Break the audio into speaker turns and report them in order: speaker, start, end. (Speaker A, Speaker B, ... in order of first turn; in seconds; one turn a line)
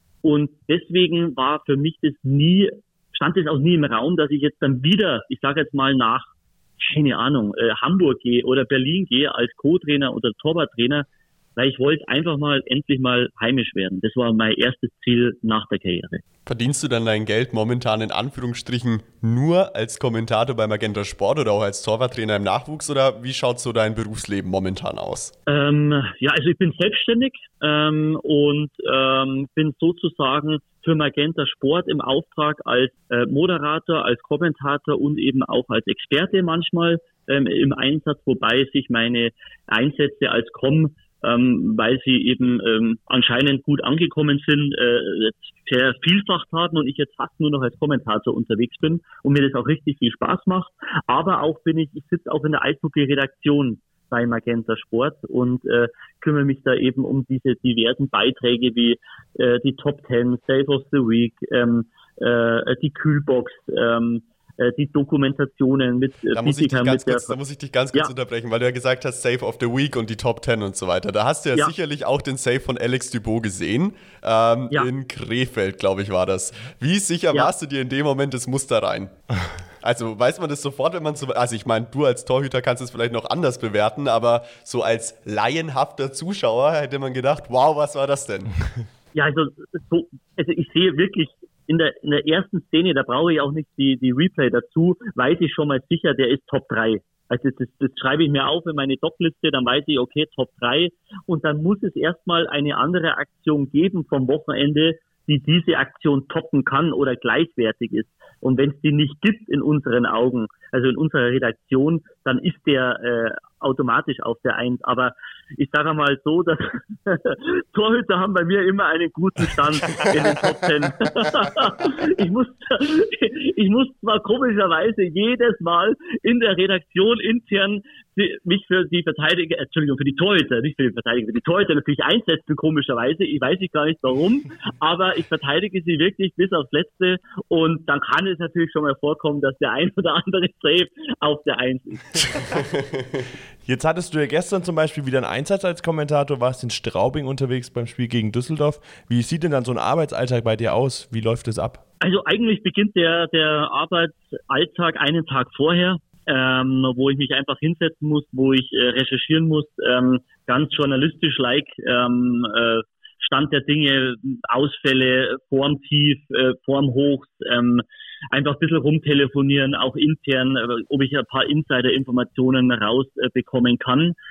Speaker A: 0.2-16.2
Speaker B: 16.4-25.3
Speaker A: 25.5-67.3
Speaker B: 66.3-79.1
Speaker B: 79.8-88.5
Speaker A: 89.1-142.4
Speaker C: 143.6-151.8
Speaker A: 152.0-174.2